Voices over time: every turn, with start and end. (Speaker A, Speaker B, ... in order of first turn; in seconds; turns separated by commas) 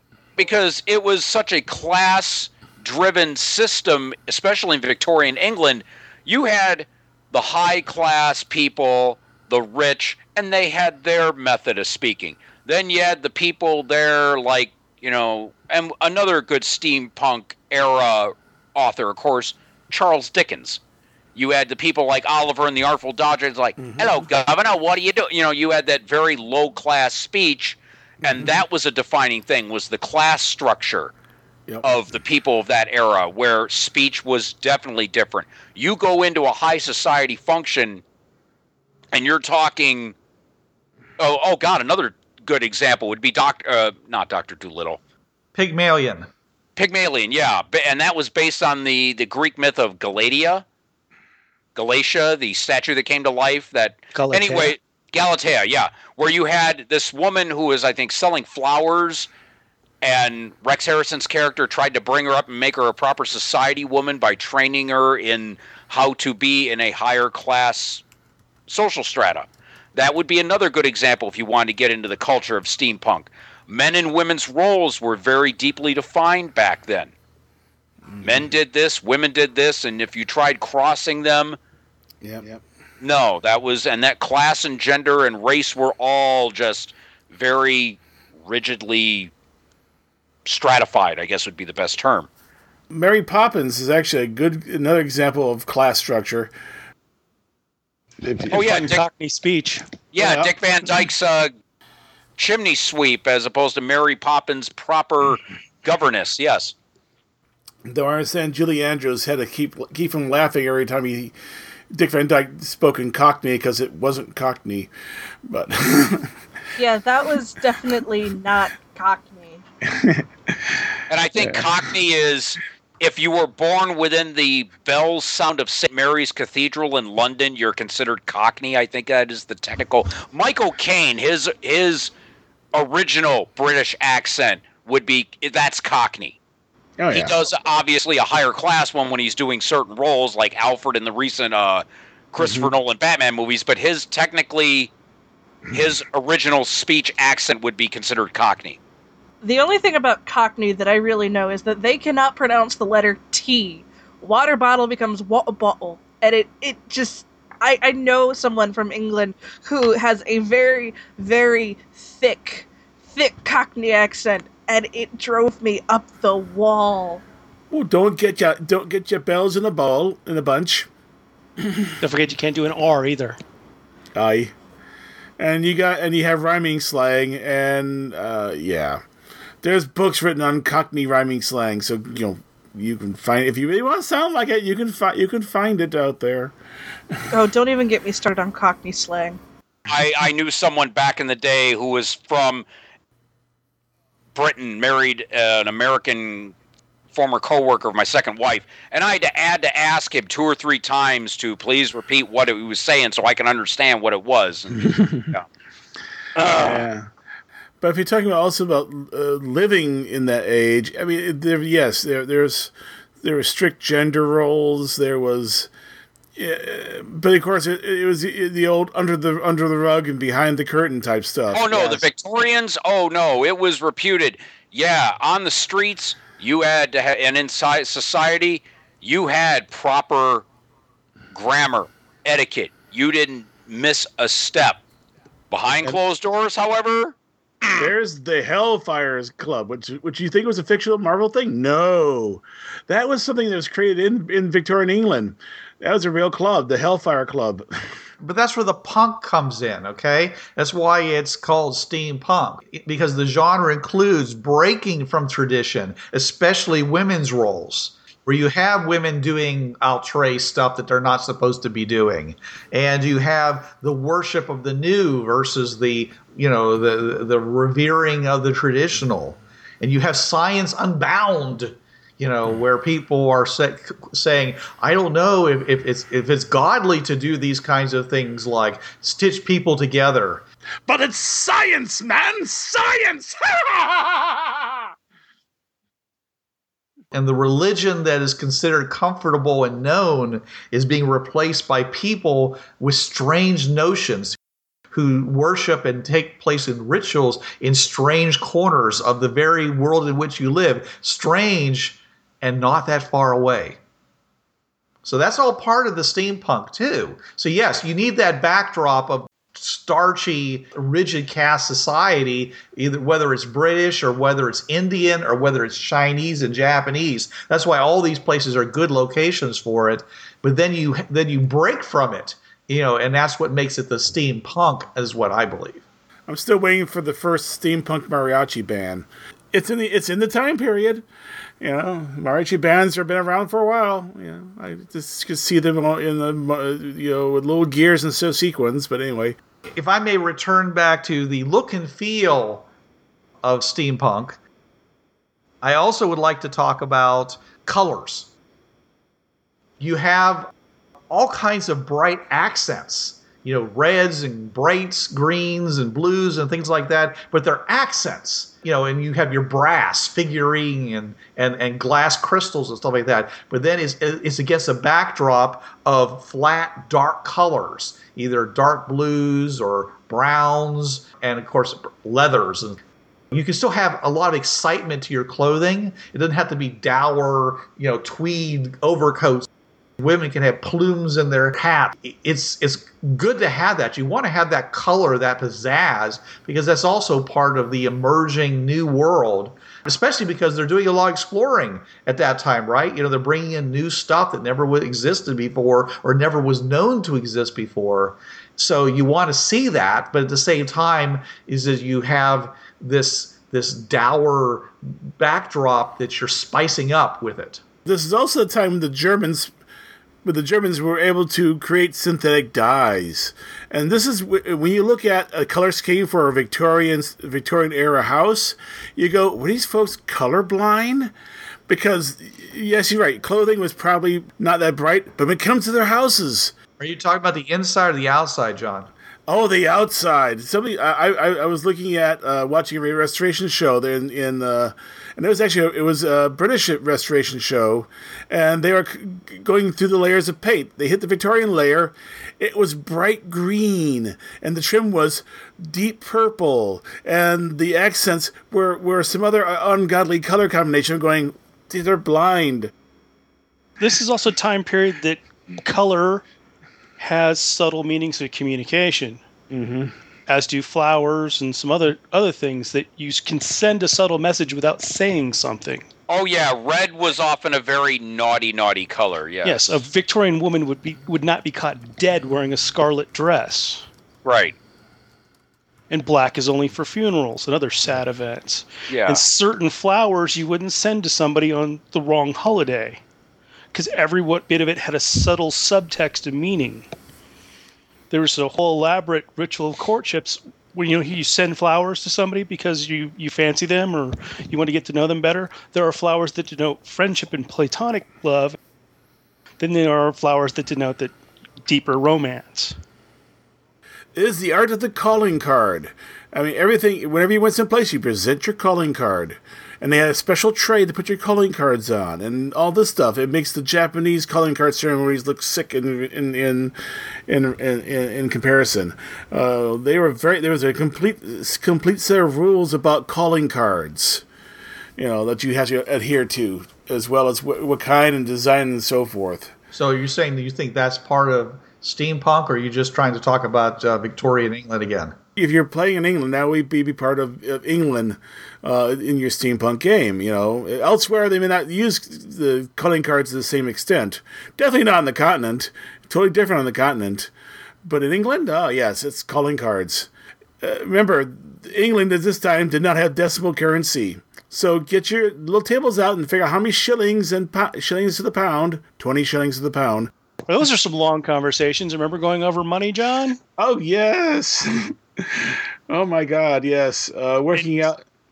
Speaker A: 0.4-20.8, Speaker A: 21.4-31.1, Speaker B: 23.8-24.2, Speaker B: 28.2-28.6, Speaker B: 31.7-31.9, Speaker A: 31.8-38.0, Speaker A: 39.1-40.1, Speaker A: 41.2-45.0, Speaker C: 45.5-46.3, Speaker A: 46.8-50.6, Speaker A: 51.8-59.3, Speaker D: 54.1-54.8, Speaker A: 60.0-68.0, Speaker A: 68.7-77.1, Speaker B: 78.1-78.5, Speaker A: 78.2-81.6, Speaker B: 82.2-82.6, Speaker A: 83.0-89.3, Speaker A: 90.4-92.3, Speaker B: 92.9-96.5, Speaker B: 98.2-98.8, Speaker A: 98.5-99.0, Speaker D: 98.5-99.9, Speaker A: 100.1-101.5, Speaker B: 100.2-100.5, Speaker A: 102.4-106.7, Speaker B: 107.9-111.3, Speaker B: 111.9-114.9, Speaker B: 115.5-116.3, Speaker E: 116.8-119.6, Speaker B: 119.9-120.8, Speaker A: 121.1-132.1, Speaker B: 121.4-121.9, Speaker A: 132.7-136.4, Speaker B: 137.0-137.3, Speaker A: 137.1-144.9, Speaker B: 142.4-142.7, Speaker A: 145.7-148.8, Speaker E: 149.4-167.2, Speaker B: 167.7-170.9, Speaker B: 171.6-171.9, Speaker D: 172.0-173.4, Speaker B: 174.1-174.5, Speaker B: 175.4-179.0, Speaker B: 179.6-186.5, Speaker E: 187.3-189.4, Speaker A: 189.9-192.6, Speaker A: 194.3-196.5, Speaker A: 197.1-205.5, Speaker B: 204.8-205.3, Speaker A: 206.3-206.8, Speaker B: 206.5-207.1, Speaker B: 207.8-215.7, Speaker B: 216.3-222.1, Speaker A: 221.5-230.4, Speaker A: 231.3-234.8, Speaker A: 235.5-237.9, Speaker B: 237.8-247.7, Speaker C: 248.2-280.4, Speaker B: 280.9-284.9, Speaker C: 287.1-294.4, Speaker C: 294.9-303.8, Speaker C: 305.0-325.8, Speaker B: 326.3-331.1, Speaker B: 331.6-339.4, Speaker C: 339.8-342.6, Speaker C: 343.4-344.4, Speaker C: 345.6-348.3, Speaker C: 349.8-350.5, Speaker C: 351.1-372.8, Speaker C: 373.3-379.5, Speaker C: 380.0-407.6, Speaker B: 407.9-409.5, Speaker B: 410.2-421.1, Speaker B: 421.7-426.5, Speaker C: 426.8-428.9, Speaker B: 429.3-452.7, Speaker D: 453.8-456.2, Speaker D: 457.0-459.2, Speaker B: 459.5-459.9, Speaker D: 460.3-465.9, Speaker A: 466.1-469.6, Speaker D: 469.4-473.9, Speaker A: 474.2-474.6, Speaker D: 475.9-483.0, Speaker A: 478.9-479.2, Speaker D: 483.7-486.9, Speaker D: 488.1-498.6, Speaker D: 499.6-501.1, Speaker D: 501.6-502.8, Speaker B: 504.1-516.8, Speaker B: 517.3-524.2, Speaker B: 525.0-529.5, Speaker C: 529.7-535.1, Speaker B: 535.4-547.3, Speaker B: 547.8-550.1, Speaker B: 550.6-560.1, Speaker D: 560.5-563.4, Speaker B: 563.6-568.0